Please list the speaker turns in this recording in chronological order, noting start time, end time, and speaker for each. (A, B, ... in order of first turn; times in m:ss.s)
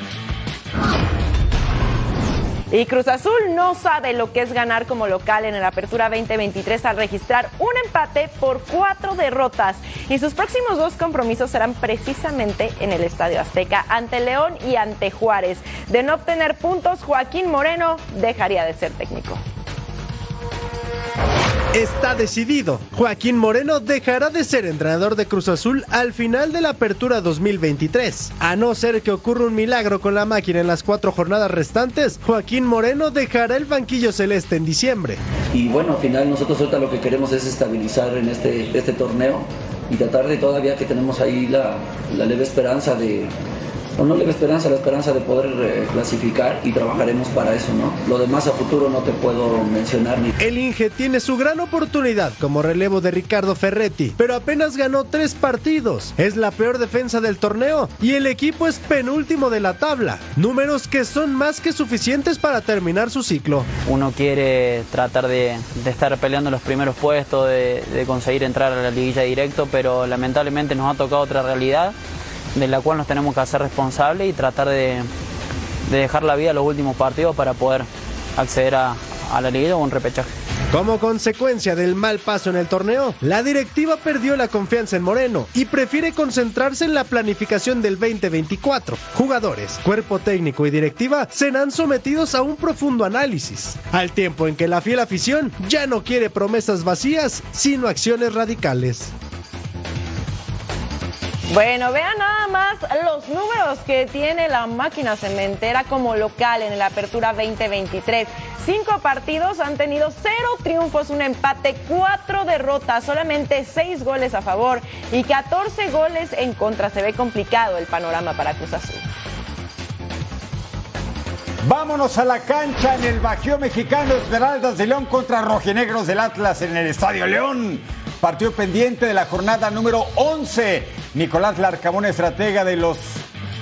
0:02.7-0:19.4 A
0:21.7-0:35.2 B
0:35.5-0:43.3 C
0:44.0-0:50.3 C
0:50.4-1:03.7 B
1:03.9-1:11.9 D
1:12.6-1:15.1 D
1:15.9-1:20.3 D
1:20.7-1:39.1 B
1:41.5-1:59.1 A
2:01.6-2:13.2 E